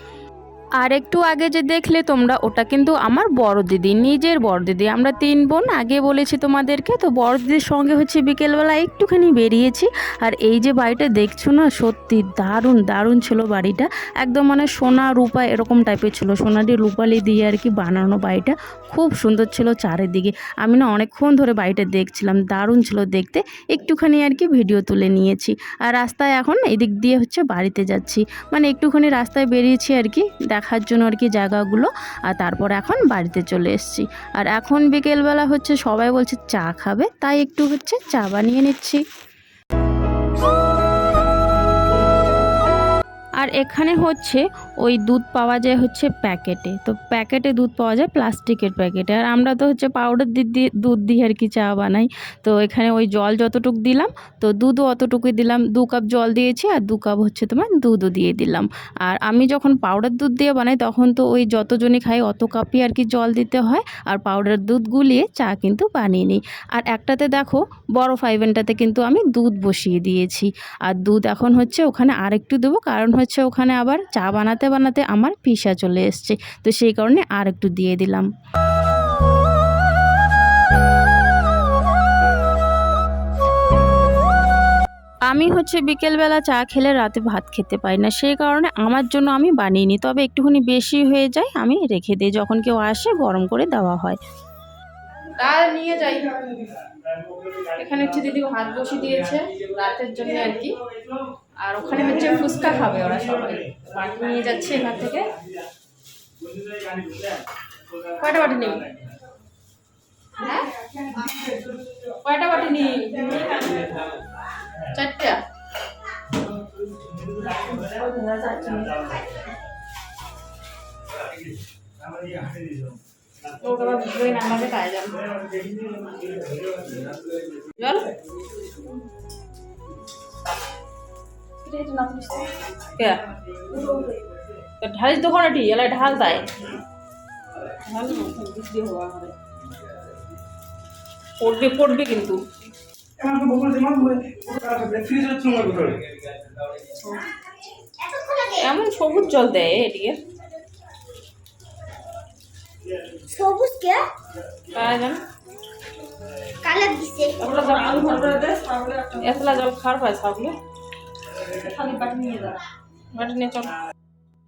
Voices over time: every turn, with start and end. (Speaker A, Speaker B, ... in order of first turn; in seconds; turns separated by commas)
Speaker A: 0.8-39.0, Speaker A: 43.4-78.3, Speaker A: 85.3-94.2, Speaker B: 95.3-96.6, Speaker B: 97.8-100.8, Speaker B: 101.6-105.3, Speaker B: 108.2-108.9, Speaker B: 110.4-111.2, Speaker B: 112.2-113.8, Speaker B: 114.9-115.4, Speaker B: 117.7-119.0, Speaker B: 123.6-125.2, Speaker B: 127.8-128.1, Speaker B: 131.6-133.2, Speaker B: 134.8-136.5, Speaker B: 137.8-139.3, Speaker B: 141.4-142.4, Speaker B: 147.0-147.3, Speaker C: 148.0-148.6, Speaker B: 148.5-150.2, Speaker C: 153.3-154.1, Speaker B: 154.7-155.2, Speaker C: 156.6-157.4, Speaker B: 157.4-160.6, Speaker B: 161.6-162.6, Speaker B: 163.2-163.8